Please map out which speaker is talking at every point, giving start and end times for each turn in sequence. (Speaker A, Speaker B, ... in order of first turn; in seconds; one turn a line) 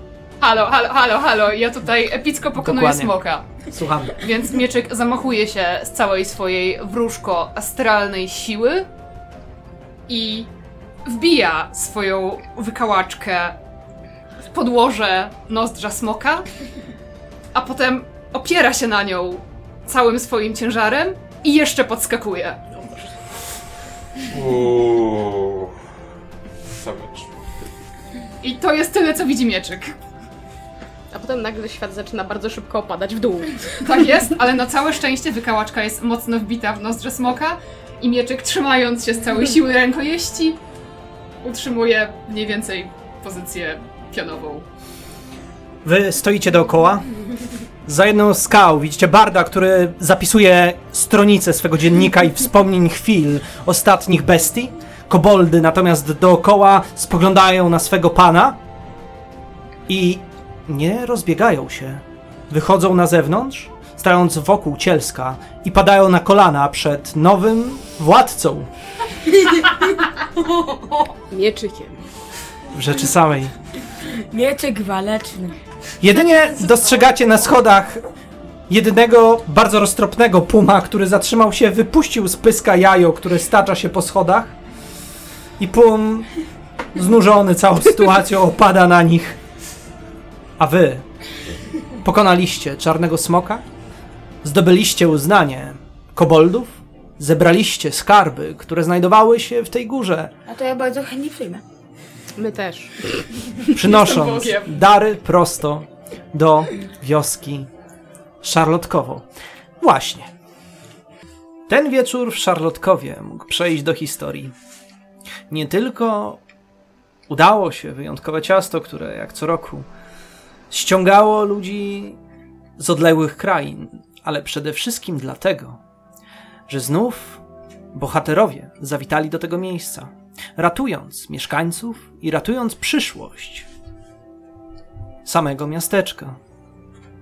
Speaker A: 0.4-8.9
Speaker B: 2.6-3.2
Speaker B: 3.7-4.2
Speaker A: 10.1-10.5
Speaker A: 11.0-13.6
Speaker A: 14.5-16.5
Speaker A: 17.5-22.7
Speaker C: 22.7-23.1
Speaker D: 24.3-25.8
Speaker D: 26.7-27.3
Speaker A: 28.4-29.9
Speaker C: 31.1-33.8
Speaker A: 33.8-40.6
Speaker A: 41.4-44.6
Speaker B: 45.8-47.1
Speaker B: 47.9-58.6
Speaker B: 59.9-68.7
Speaker E: 69.3-69.8
Speaker E: 70.3-70.9
Speaker C: 71.3-72.0
Speaker B: 72.7-73.5
Speaker E: 73.9-75.6
Speaker B: 76.0-78.0
Speaker B: 78.7-84.5
Speaker B: 85.6-86.3
Speaker B: 86.9-89.4
Speaker B: 90.6-91.0
Speaker B: 91.9-93.6
Speaker B: 94.4-100.3
Speaker E: 100.5-101.6
Speaker C: 102.3-103.5
Speaker A: 103.7-104.8
Speaker B: 103.7-107.7
Speaker B: 108.4-109.2
Speaker B: 109.8-110.3
Speaker B: 111.7-114.5
Speaker B: 115.5-116.4
Speaker B: 117.3-119.9
Speaker B: 120.7-122.2
Speaker B: 122.8-125.8
Speaker B: 126.7-127.4
Speaker B: 127.9-133.7
Speaker B: 135.2-136.4